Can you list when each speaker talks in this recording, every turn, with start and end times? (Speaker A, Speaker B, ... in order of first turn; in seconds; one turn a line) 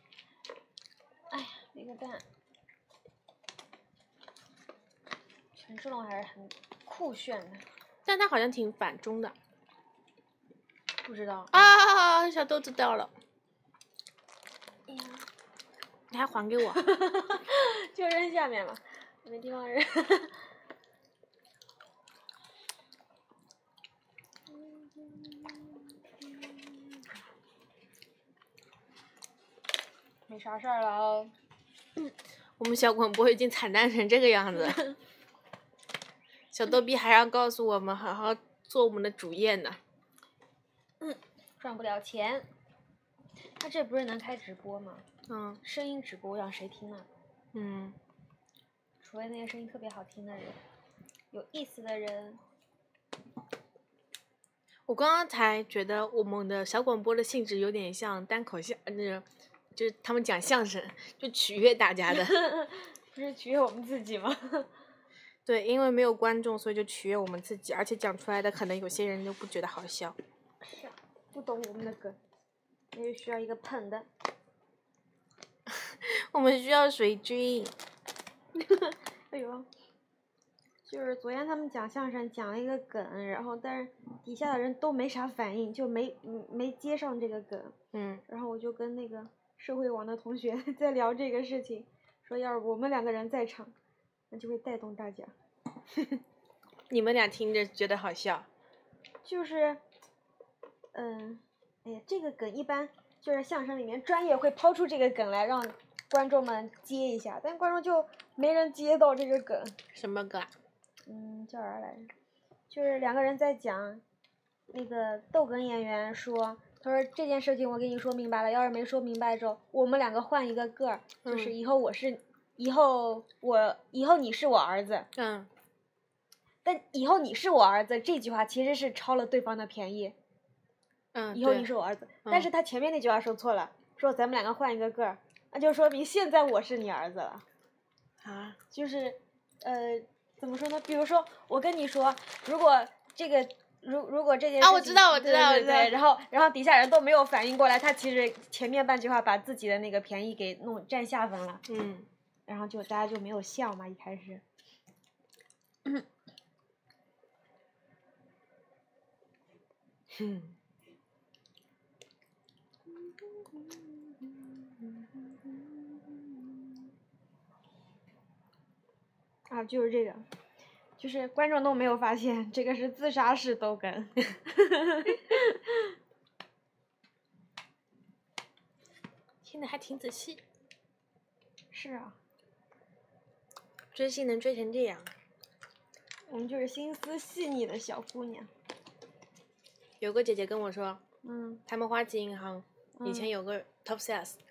Speaker A: 1.3-2.2
Speaker A: 5.6-7.6
Speaker B: 8.1-9.3
Speaker A: 11.0-11.8
Speaker B: 11.5-13.1
Speaker A: 14.9-15.2
Speaker B: 16.1-16.8
Speaker A: 16.7-20.4
Speaker A: 24.5-25.5
Speaker A: 30.3-31.3
Speaker B: 32.0-34.8
Speaker B: 36.5-39.8
Speaker A: 41.0-42.5
Speaker A: 43.6-45.0
Speaker B: 45.3-45.6
Speaker A: 45.6-47.1
Speaker B: 47.5-48.0
Speaker A: 49.0-50.6
Speaker A: 51.3-52.4
Speaker B: 54.9-62.4
Speaker A: 62.1-64.7
Speaker B: 65.5-70.2
Speaker A: 70.6-72.2
Speaker A: 72.9-74.1
Speaker B: 75.7-77.7
Speaker A: 78.5-79.7
Speaker A: 80.9-87.8
Speaker B: 87.9-88.2
Speaker A: 88.3-93.7
Speaker A: 94.3-95.3
Speaker B: 96.9-98.5
Speaker A: 99.2-99.8
Speaker A: 100.9-109.8
Speaker B: 109.9-110.5
Speaker A: 111.1-112.1
Speaker A: 112.7-114.0
Speaker A: 114.7-125.1
Speaker B: 121.2-121.5
Speaker B: 125.2-125.5
Speaker A: 126.6-130.2
Speaker B: 131.1-131.7
Speaker A: 131.3-137.4
Speaker B: 132.2-132.5
Speaker B: 138.2-138.6
Speaker A: 138.7-151.6
Speaker B: 144.6-145.9
Speaker B: 151.7-152.1
Speaker A: 152.5-154.4
Speaker B: 160.1-160.6
Speaker A: 162.9-166.6
Speaker A: 169.5-170.2
Speaker A: 171.0-175.9
Speaker B: 179.4-180.4
Speaker A: 181.7-182.2
Speaker B: 183.9-185.1
Speaker A: 186.3-188.5
Speaker B: 190.0-191.0
Speaker A: 191.2-191.6
Speaker B: 191.7-194.4
Speaker A: 193.0-193.3